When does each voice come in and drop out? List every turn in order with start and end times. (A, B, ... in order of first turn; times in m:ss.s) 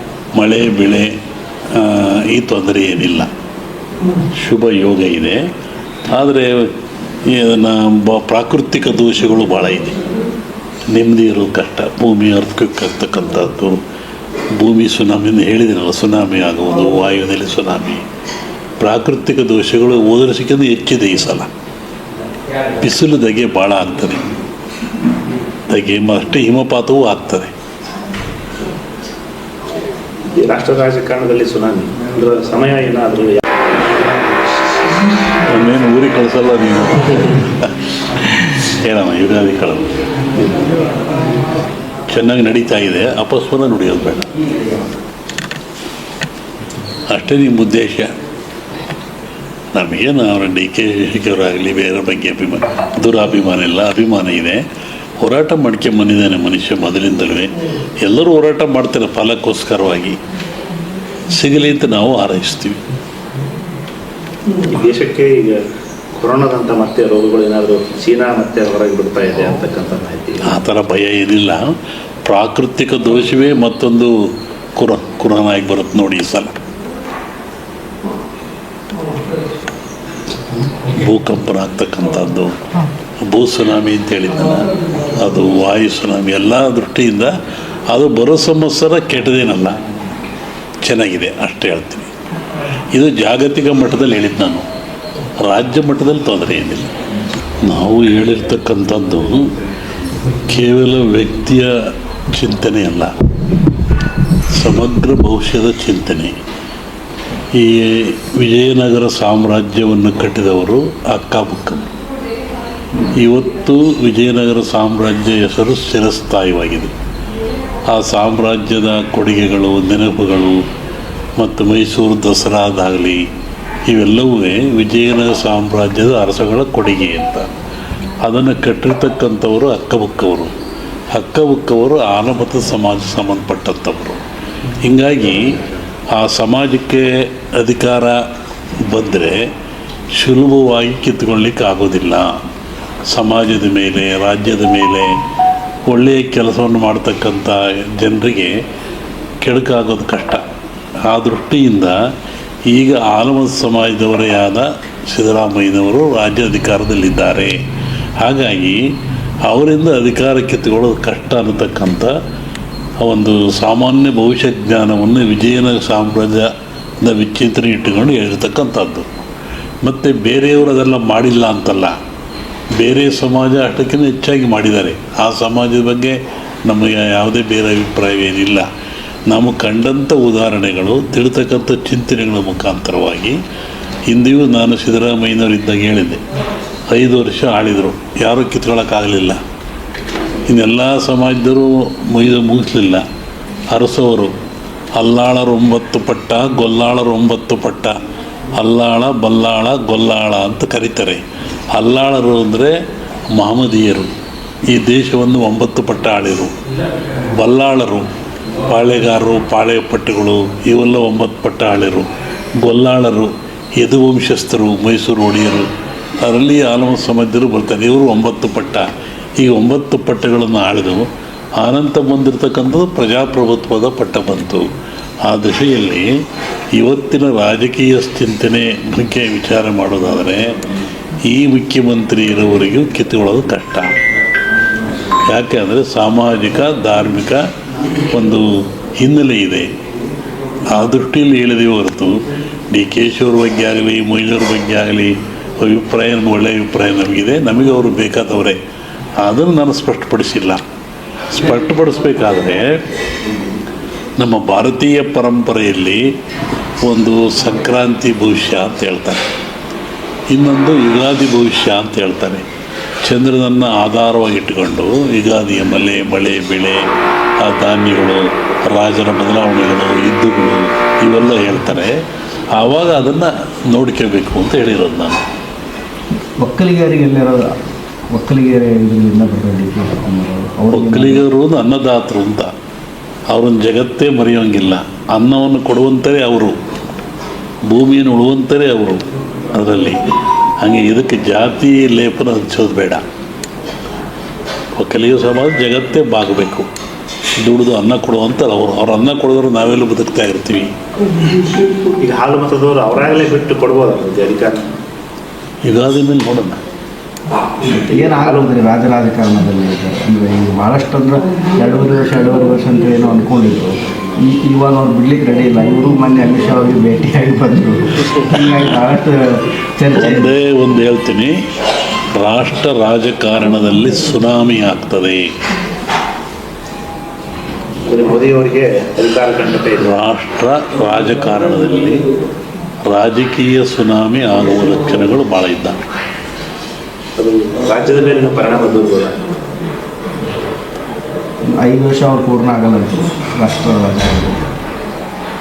0:00.4-0:01.1 A
0:01.7-0:03.3 A
0:04.3-0:05.4 A
0:06.1-0:06.7 A
0:07.2-0:10.0 A
0:10.9-0:13.8 A
0:14.5-0:18.0 A
0:18.8-0:21.5 A
0:22.8-0:24.2 A
0:25.7-0:27.5 A
0:30.4-0:33.4 B
0:35.5-0:40.6 A
0:42.1-0:44.3 A
0:47.1-0:48.1 A
0:49.7-0:54.6 A
0:55.2-1:00.2 A
1:01.3-1:02.8 A
1:04.6-1:05.6 B
1:06.2-1:10.6 B
1:10.4-1:11.7 A
1:12.2-1:14.1 A
1:14.8-1:16.5 A
1:20.8-1:22.7 A
1:23.2-1:27.3 A
1:27.9-1:29.8 A
1:30.8-1:32.1 A
1:32.9-1:34.6 A
1:35.4-1:36.9 A
1:37.6-1:39.5 A
1:40.4-1:41.7 A
1:42.3-1:43.1 A
1:44.5-1:46.3 A
1:47.6-1:51.9 A
1:53.1-1:56.9 A
1:57.9-2:00.6 A
2:01.4-2:03.2 A
2:03.9-2:07.5 A
2:08.2-2:10.5 A
2:11.1-2:14.2 A
2:14.8-2:15.6 A
2:16.1-2:18.2 A
2:18.8-2:19.4 A
2:20.2-2:22.3 A
2:23.1-2:25.1 A
2:25.9-2:28.5 A
2:29.4-2:30.4 A
2:31.1-2:32.0 A
2:32.7-2:37.6 A
2:38.2-2:38.8 A
2:39.4-2:42.1 A
2:43.0-2:46.5 A
2:47.0-2:49.1 A
2:49.8-2:52.0 A
2:52.8-2:58.6 A
2:59.3-3:03.4 A
3:04.1-3:06.2 A
3:06.9-3:09.4 A
3:10.5-3:13.0 A
3:13.7-3:14.3 A
3:15.0-3:18.0 A
3:18.6-3:21.2 A
3:21.7-3:22.7 A
3:23.3-3:24.1 A
3:24.7-3:26.5 A
3:27.4-3:28.1 A
3:28.6-3:38.9 A
3:39.4-3:44.7 A
3:45.3-3:46.1 A
3:46.8-3:50.5 A
3:51.2-3:54.0 A
3:55.3-3:57.4 A
3:58.1-3:59.7 A
4:00.7-4:08.6 A
4:09.2-4:10.6 A
4:11.3-4:12.7 A
4:14.2-4:16.0 A
4:16.8-4:19.2 A
4:20.3-4:22.4 A
4:23.0-4:26.8 A
4:27.4-4:31.9 A
4:32.6-4:35.2 A
4:36.4-4:37.5 C
4:38.1-4:41.2 C
4:40.7-4:42.5 A
4:43.3-4:46.6 A
4:47.7-4:50.0 A
4:50.6-4:53.0 A
4:54.7-4:56.7 A
4:57.4-5:00.7 A
5:02.0-5:04.6 B
5:05.6-5:06.6 A
5:07.6-5:08.5 B
5:07.8-5:20.3 C
5:20.0-5:21.4 A
5:22.2-5:25.3 A
5:27.9-5:29.9 B
5:29.8-5:32.0 A
5:32.9-5:35.8 A
5:37.2-5:39.2 B
5:41.5-5:44.4 C